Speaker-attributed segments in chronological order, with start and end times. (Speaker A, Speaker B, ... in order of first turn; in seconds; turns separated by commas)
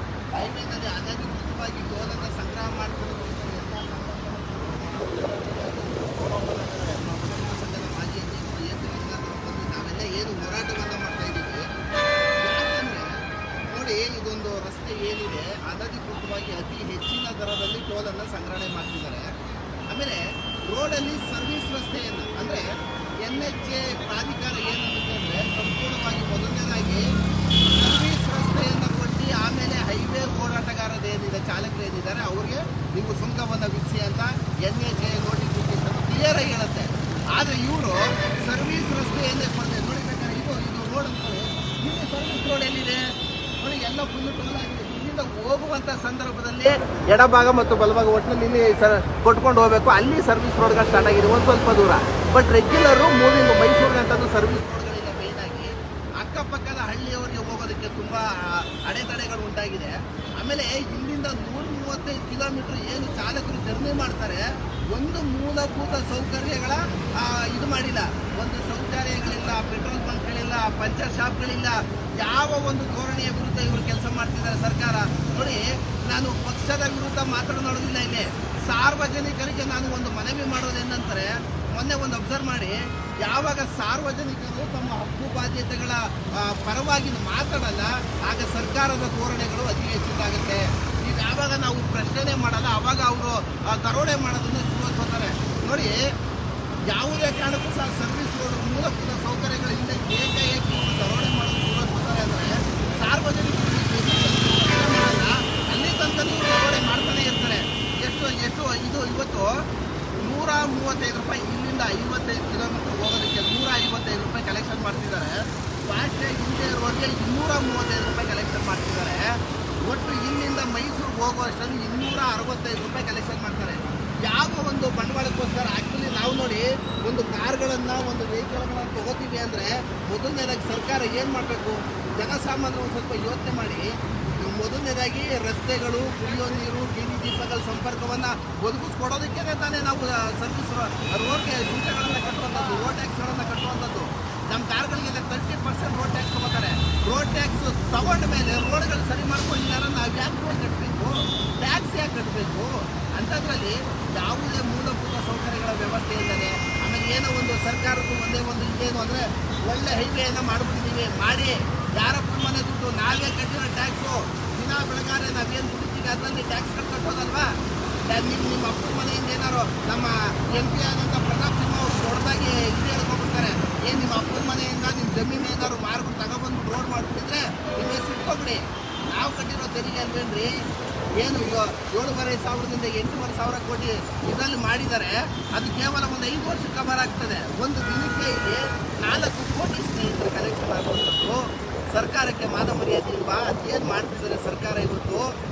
Speaker A: 0.3-11.6, Speaker A: 12.4-13.1, Speaker A: 13.7-19.3, Speaker A: 19.9-20.2, Speaker A: 20.7-22.6, Speaker A: 23.2-27.0, Speaker A: 27.7-43.0, Speaker A: 43.6-96.0, Speaker A: 96.9-109.5, Speaker A: 110.2-119.2, Speaker A: 119.9-167.5, Speaker A: 168.1-180.5, Speaker A: 181.2-191.4, Speaker A: 191.9-195.2